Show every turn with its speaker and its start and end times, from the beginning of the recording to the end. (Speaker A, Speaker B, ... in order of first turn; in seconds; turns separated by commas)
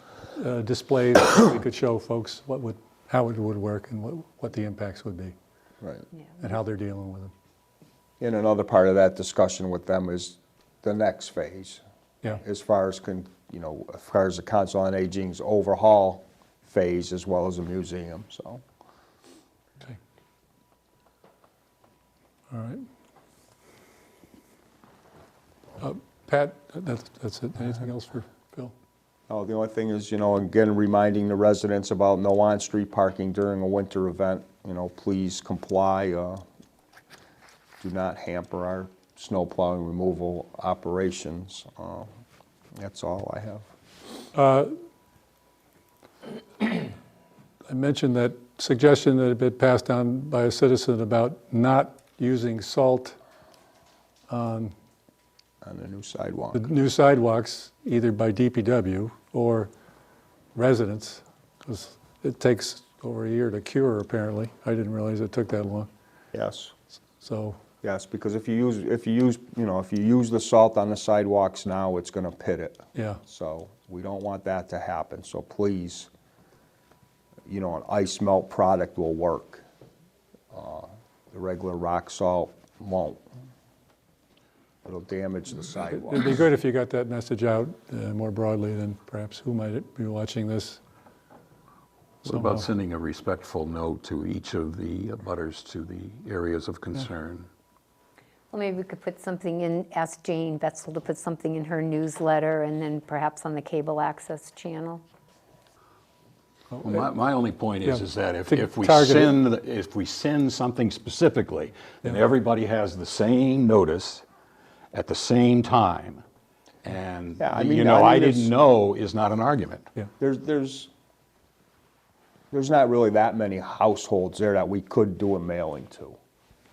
Speaker A: 0.3-5.3, Speaker B: 5.8-6.0, Speaker A: 6.4-7.3, Speaker B: 8.2-11.8, Speaker B: 12.4-18.6, Speaker A: 22.5-22.9, Speaker A: 25.8-28.7, Speaker B: 29.3-36.4, Speaker B: 37.8-42.1, Speaker B: 42.8-43.6, Speaker A: 44.3-44.7, Speaker A: 47.7-53.1, Speaker A: 54.3-54.7, Speaker B: 55.6-56.6, Speaker A: 56.5-59.7, Speaker A: 60.5-65.9, Speaker B: 66.3-66.7, Speaker A: 67.2-67.6, Speaker B: 67.8-76.1, Speaker A: 72.9-73.2, Speaker B: 77.5-79.6, Speaker B: 80.5-83.2, Speaker B: 84.8-86.5, Speaker A: 85.9-90.8, Speaker C: 92.2-97.5, Speaker A: 92.3-92.6, Speaker D: 98.5-105.0, Speaker C: 106.8-114.2, Speaker A: 107.8-109.3, Speaker C: 114.9-116.2, Speaker C: 116.8-119.9, Speaker B: 117.4-118.5, Speaker B: 120.2-120.9, Speaker B: 122.5-126.2